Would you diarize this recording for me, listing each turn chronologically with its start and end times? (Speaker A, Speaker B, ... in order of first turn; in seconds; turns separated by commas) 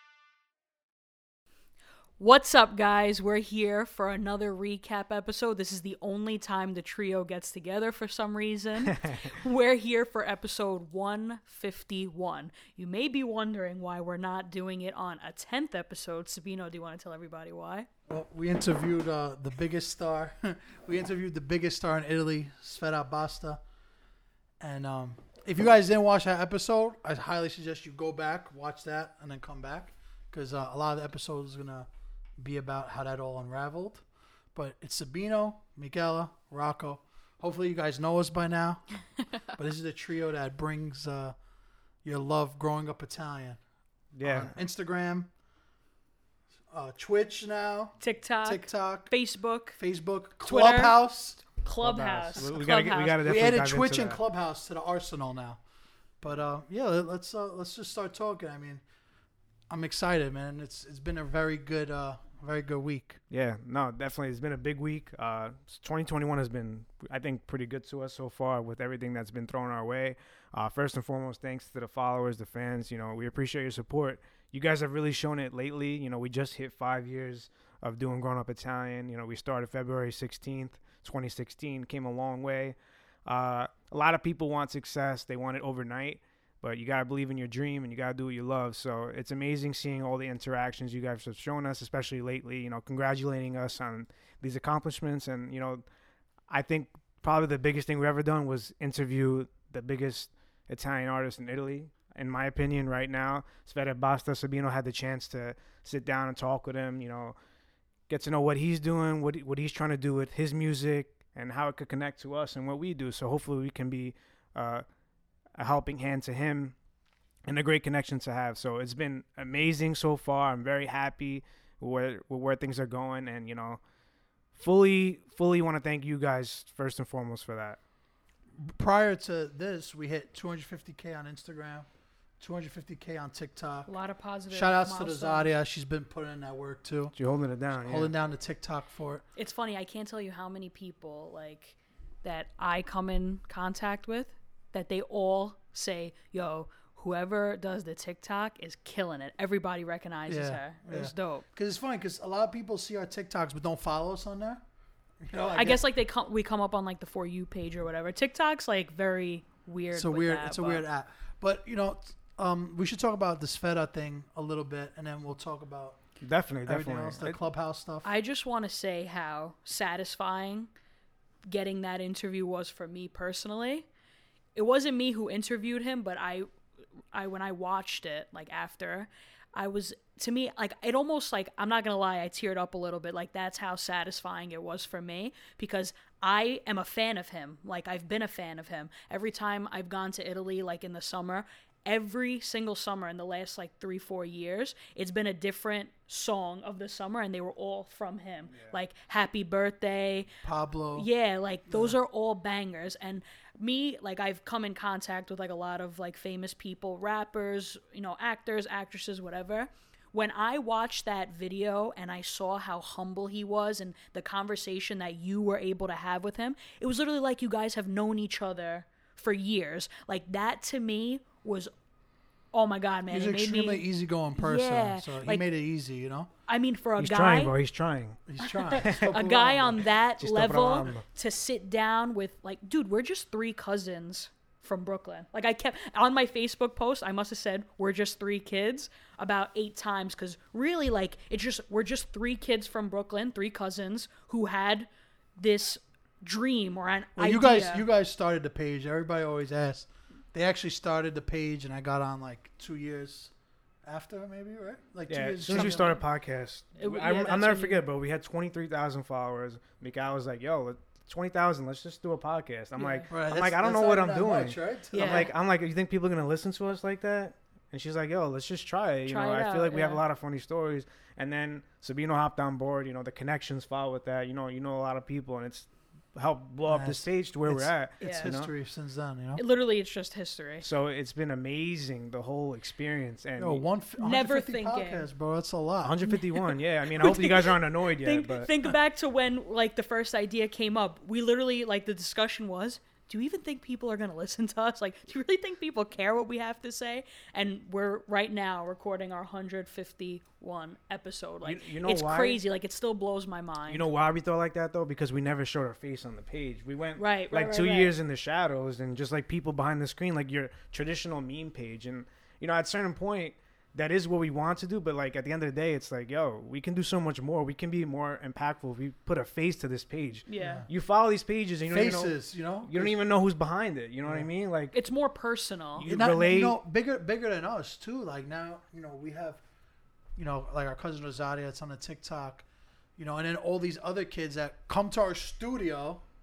Speaker A: 2.2-17.9, Speaker B: 8.9-9.2, Speaker C: 18.1-23.6, Speaker C: 24.6-34.0, Speaker C: 34.5-38.8, Speaker C: 39.5-41.3, Speaker C: 42.0-43.6, Speaker B: 44.1-44.5, Speaker C: 44.2-45.3, Speaker C: 46.7-49.1, Speaker A: 48.0-49.8, Speaker C: 49.8-52.5, Speaker A: 50.4-51.0, Speaker A: 51.5-53.2, Speaker B: 51.8-54.2, Speaker C: 53.2-55.6, Speaker C: 56.2-58.8, Speaker C: 59.7-63.2, Speaker B: 63.3-95.8, Speaker B: 96.5-107.3, Speaker B: 108.1-114.8, Speaker B: 115.5-116.7, Speaker B: 117.5-123.8, Speaker B: 124.5-127.8, Speaker C: 128.6-131.9, Speaker C: 132.4-133.9, Speaker A: 133.8-135.5, Speaker C: 134.5-137.1, Speaker B: 137.2-138.1, Speaker C: 137.7-139.2, Speaker A: 139.3-151.4, Speaker C: 150.3-154.6, Speaker C: 155.2-155.8, Speaker A: 155.5-160.8, Speaker C: 159.9-166.0, Speaker B: 166.2-167.4, Speaker C: 166.7-168.1, Speaker A: 168.0-170.7, Speaker A: 171.5-173.8, Speaker A: 174.5-176.5, Speaker A: 177.1-200.3, Speaker B: 198.5-198.8, Speaker C: 200.4-201.1, Speaker A: 200.9-221.7, Speaker C: 201.7-201.9, Speaker A: 222.5-223.8, Speaker C: 223.1-226.3, Speaker A: 224.4-225.4, Speaker A: 226.5-227.5, Speaker B: 227.0-228.2, Speaker C: 228.3-229.8, Speaker A: 228.4-247.8, Speaker B: 228.8-229.2, Speaker B: 230.2-231.0, Speaker C: 247.2-253.3, Speaker C: 253.8-255.9, Speaker B: 255.1-278.5, Speaker A: 255.5-256.0, Speaker A: 256.8-257.8, Speaker A: 262.8-263.1, Speaker C: 263.1-265.3, Speaker A: 264.9-265.3, Speaker A: 269.1-270.0, Speaker C: 276.7-279.4, Speaker A: 278.0-278.3, Speaker A: 279.4-280.6, Speaker B: 280.6-283.6, Speaker C: 283.4-286.0, Speaker A: 284.0-285.1, Speaker B: 285.8-288.5, Speaker A: 286.1-303.8, Speaker B: 301.4-302.4, Speaker B: 303.7-324.8, Speaker A: 307.0-307.9, Speaker A: 320.3-320.6, Speaker C: 320.4-320.7, Speaker C: 321.6-322.9, Speaker A: 324.7-325.9, Speaker B: 325.8-326.6, Speaker C: 325.9-329.4, Speaker C: 330.1-332.4, Speaker C: 333.0-336.0